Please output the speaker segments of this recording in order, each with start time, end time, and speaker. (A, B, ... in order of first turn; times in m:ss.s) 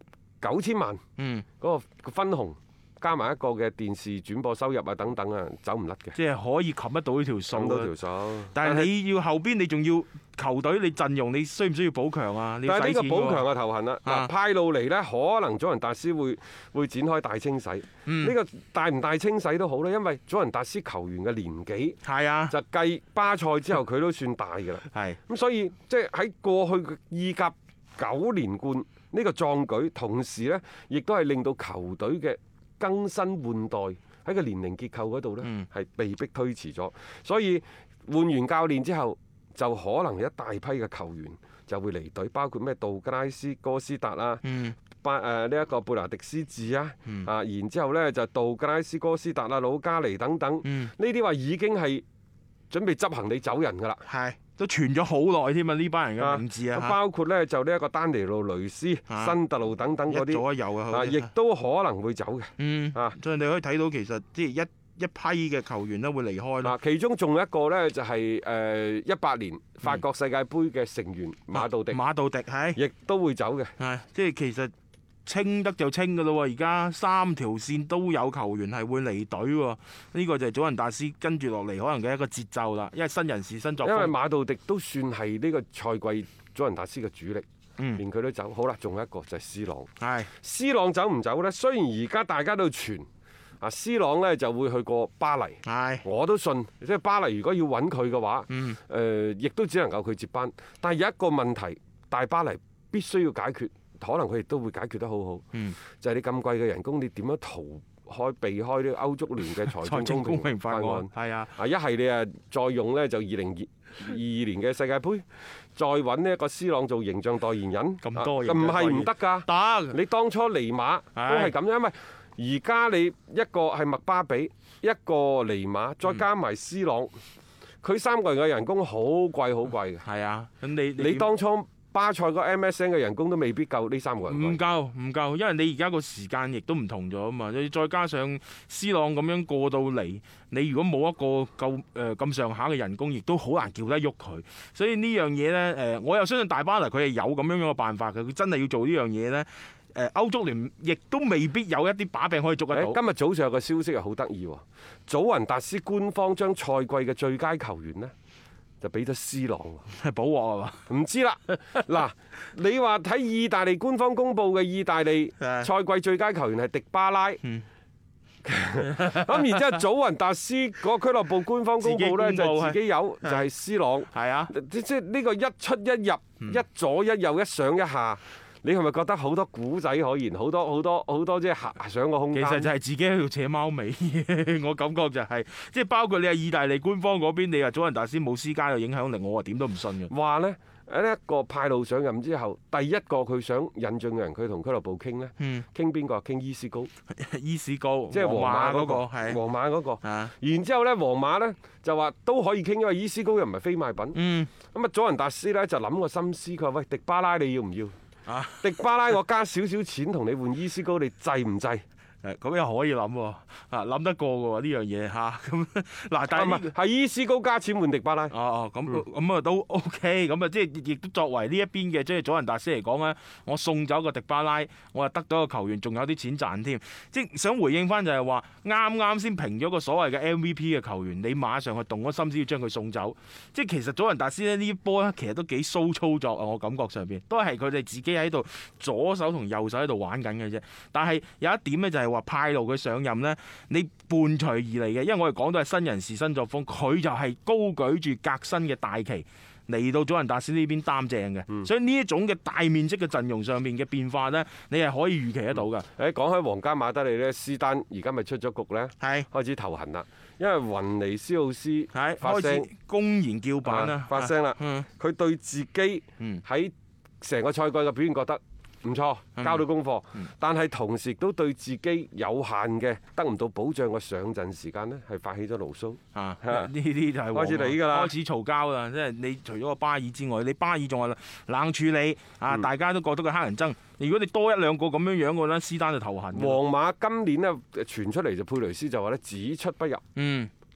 0:00.4-0:01.0 A
0:01.2-0:01.4 B
0:01.6-0:06.2 A
0:06.1-0:07.9 B
0:07.5-0:08.9 A
0:08.5-0:13.4 B
0:12.6-0:44.4 A
0:14.0-0:14.3 B
0:18.0-0:18.3 B
0:22.0-0:22.5 B
0:24.9-0:25.2 B
0:44.4-0:44.8 B
0:45.0-0:52.0 A
0:50.6-0:50.9 B
0:52.7-0:54.0 A
0:54.0-0:57.0 B
0:56.2-1:03.2 A
0:59.1-0:59.3 B
1:00.1-1:01.3 B
1:02.6-1:06.7 B
1:06.6-1:12.0 A
1:11.5-1:12.8 B
1:12.7-1:13.7 A
1:13.8-1:14.7 B
1:15.2-1:24.1 B
1:23.8-1:27.4 A
1:28.0-1:33.0 A
1:30.0-1:30.3 B
1:33.6-2:07.1 A
1:35.6-1:36.0 B
1:38.5-1:38.8 B
1:49.6-1:51.5 B
1:58.0-2:00.0 B
2:01.2-2:01.5 B
2:07.8-2:10.0 A
2:10.0-2:11.3 B
2:11.0-2:14.6 A
2:14.3-2:33.0 B
2:32.7-2:38.1 A
2:38.8-2:39.9 A
2:39.9-2:40.9 B
2:40.9-2:47.4 A
2:41.5-2:41.8 B
2:45.4-2:45.7 B
2:48.4-3:02.7 A
2:49.0-2:49.4 B
2:51.8-2:53.5 B
2:54.1-2:54.5 B
3:02.3-3:10.1 B
3:10.1-3:16.9 A
3:15.4-3:15.6 B
3:17.1-3:19.4 B
3:18.1-3:27.9 A
3:20.0-3:20.3 B
3:24.1-3:24.5 B
3:28.3-3:28.7 B
3:28.6-3:31.8 A
3:32.2-3:36.7 B
3:36.3-3:38.3 A
3:38.3-4:15.9 B
4:15.9-4:22.7 A
4:19.0-4:19.3 B
4:21.9-4:24.8 B
4:23.6-4:36.7 A
4:29.4-4:29.6 B
4:36.1-4:46.6 B
4:37.3-4:38.1 A
4:46.3-4:50.0 A
4:50.1-4:50.5 B